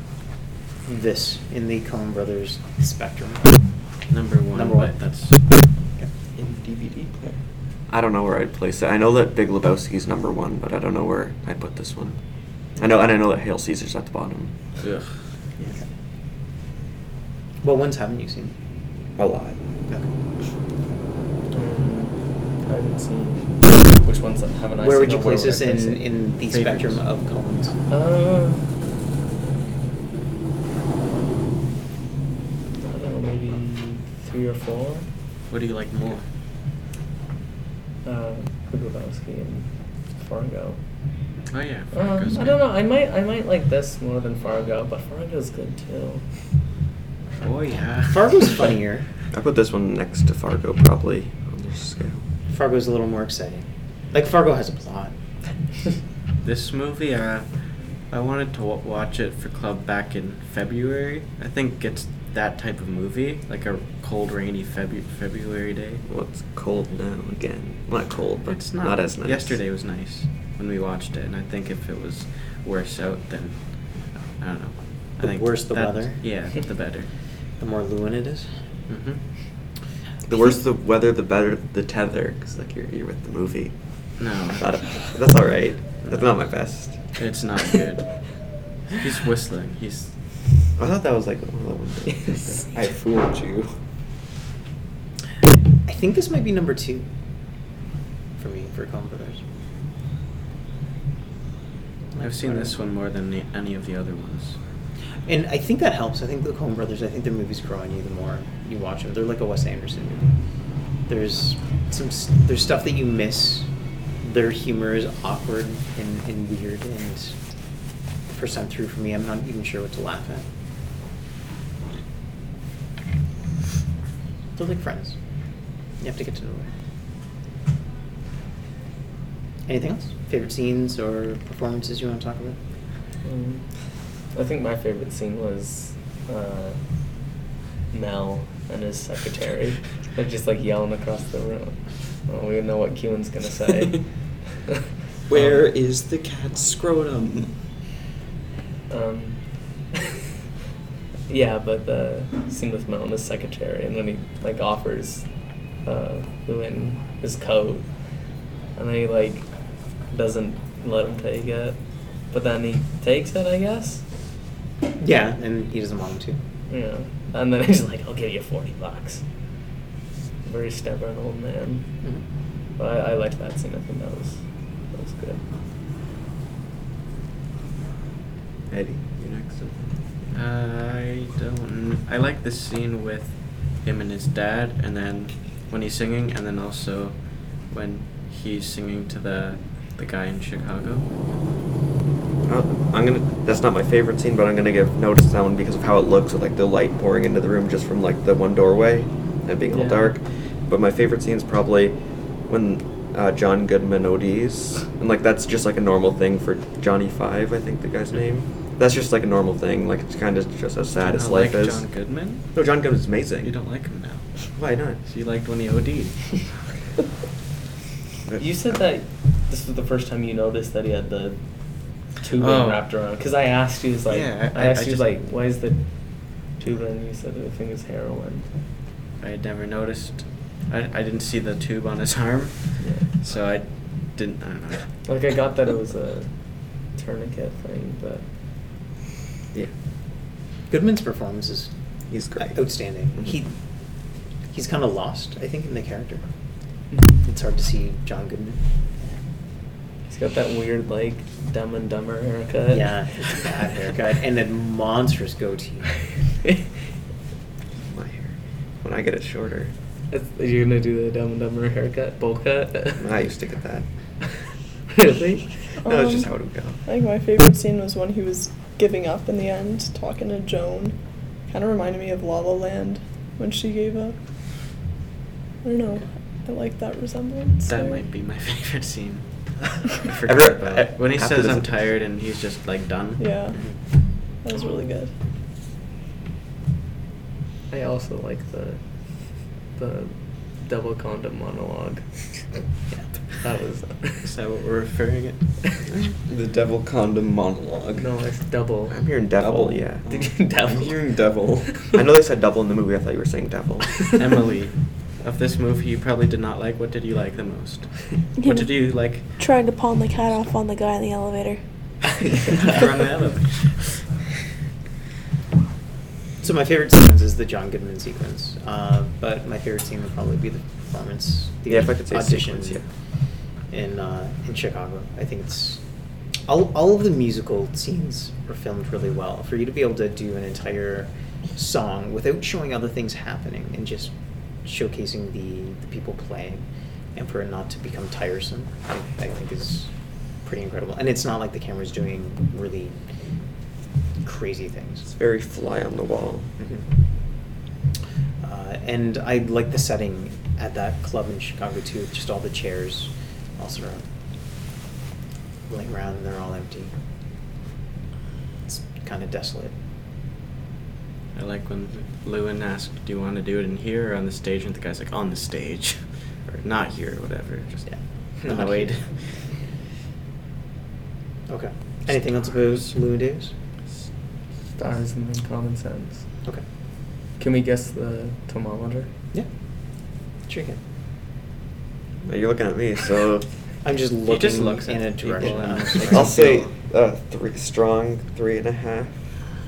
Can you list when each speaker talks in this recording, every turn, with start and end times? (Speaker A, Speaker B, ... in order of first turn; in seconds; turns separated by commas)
Speaker A: 0.9-3.6, Speaker B: 4.1-5.4, Speaker A: 4.5-4.9, Speaker C: 6.4-7.4, Speaker D: 7.9-12.2, Speaker A: 12.8-13.1, Speaker D: 12.8-14.6, Speaker B: 14.8-15.1, Speaker A: 17.6-18.5, Speaker D: 19.2-19.6, Speaker E: 21.5-26.1, Speaker A: 24.8-27.8, Speaker B: 26.5-27.0, Speaker E: 27.9-28.7, Speaker E: 32.8-35.1, Speaker B: 35.5-36.2, Speaker E: 38.0-40.8, Speaker B: 41.5-42.6, Speaker E: 41.9-46.2, Speaker B: 47.4-48.7, Speaker A: 48.1-49.1, Speaker D: 49.3-52.2, Speaker A: 52.5-55.1, Speaker B: 56.4-57.5, Speaker B: 58.1-66.0, Speaker D: 66.1-69.6, Speaker B: 68.5-77.1, Speaker A: 75.2-76.2, Speaker A: 77.6-78.5, Speaker B: 78.9-79.2, Speaker D: 80.3-87.2, Speaker B: 84.2-85.1, Speaker B: 86.0-88.3, Speaker B: 88.9-90.1, Speaker D: 90.8-92.7, Speaker C: 92.7-93.7, Speaker A: 95.9-97.1, Speaker A: 98.4-99.4, Speaker A: 102.1-102.8, Speaker B: 102.2-104.6, Speaker A: 105.3-110.4, Speaker A: 111.1-113.7, Speaker A: 114.2-117.4, Speaker A: 118.3-120.5, Speaker A: 124.5-125.2, Speaker A: 126.0-126.7, Speaker A: 129.7-132.6, Speaker E: 133.2-136.8, Speaker E: 137.9-144.2, Speaker C: 145.3-147.6, Speaker E: 145.3-145.7, Speaker E: 148.9-150.0, Speaker E: 151.3-155.3, Speaker E: 155.8-157.9, Speaker E: 158.8-159.5, Speaker E: 160.1-164.1, Speaker A: 165.0-166.4, Speaker E: 166.7-169.2, Speaker E: 170.4-172.0, Speaker E: 172.8-175.4, Speaker D: 178.7-180.0, Speaker B: 180.3-191.1, Speaker D: 192.5-211.9, Speaker E: 199.7-200.2, Speaker B: 211.0-212.5, Speaker D: 212.5-213.5, Speaker B: 213.4-216.5, Speaker D: 214.5-215.0, Speaker E: 218.4-221.4, Speaker E: 222.2-228.5, Speaker B: 222.4-222.8, Speaker B: 224.1-225.1, Speaker B: 229.2-234.9, Speaker E: 232.8-233.1, Speaker E: 235.1-238.3, Speaker A: 240.7-241.7, Speaker D: 242.1-243.3, Speaker A: 242.4-243.5, Speaker A: 244.5-246.2, Speaker E: 246.9-247.3, Speaker A: 247.2-249.2, Speaker E: 250.1-253.5, Speaker A: 252.7-255.9, Speaker D: 257.8-259.7, Speaker E: 260.1-263.1, Speaker D: 263.0-263.9, Speaker E: 264.9-265.5, Speaker F: 265.8-271.0, Speaker D: 265.8-266.8, Speaker F: 271.5-274.2, Speaker F: 275.6-278.0, Speaker B: 277.7-279.2, Speaker B: 279.9-283.8, Speaker D: 280.1-281.8, Speaker F: 283.2-283.6, Speaker F: 284.2-285.1, Speaker E: 287.7-288.9, Speaker E: 289.7-292.4, Speaker E: 293.4-294.3, Speaker B: 294.2-295.7, Speaker C: 296.3-298.1, Speaker E: 298.0-299.1, Speaker D: 298.9-300.0, Speaker C: 299.4-301.8, Speaker E: 300.1-301.8, Speaker D: 301.9-304.1, Speaker B: 304.1-309.3, Speaker G: 308.4-311.6, Speaker B: 312.4-313.9, Speaker E: 312.5-312.8, Speaker A: 316.4-322.8, Speaker D: 321.7-322.9, Speaker A: 323.7-325.8, Speaker A: 326.4-334.1, Speaker A: 334.6-339.9, Speaker A: 340.4-343.0, Speaker A: 344.2-345.1, Speaker D: 345.1-346.5, Speaker A: 346.6-346.9, Speaker A: 348.4-354.1, Speaker A: 355.7-356.9, Speaker A: 358.7-359.7, Speaker B: 361.4-369.5, Speaker A: 367.9-368.9, Speaker A: 371.5-373.5, Speaker B: 372.1-372.9, Speaker E: 374.8-376.3, Speaker E: 377.4-379.1, Speaker A: 380.5-380.8, Speaker D: 382.2-383.5, Speaker A: 383.8-386.5, Speaker B: 384.3-386.7, Speaker D: 385.4-389.2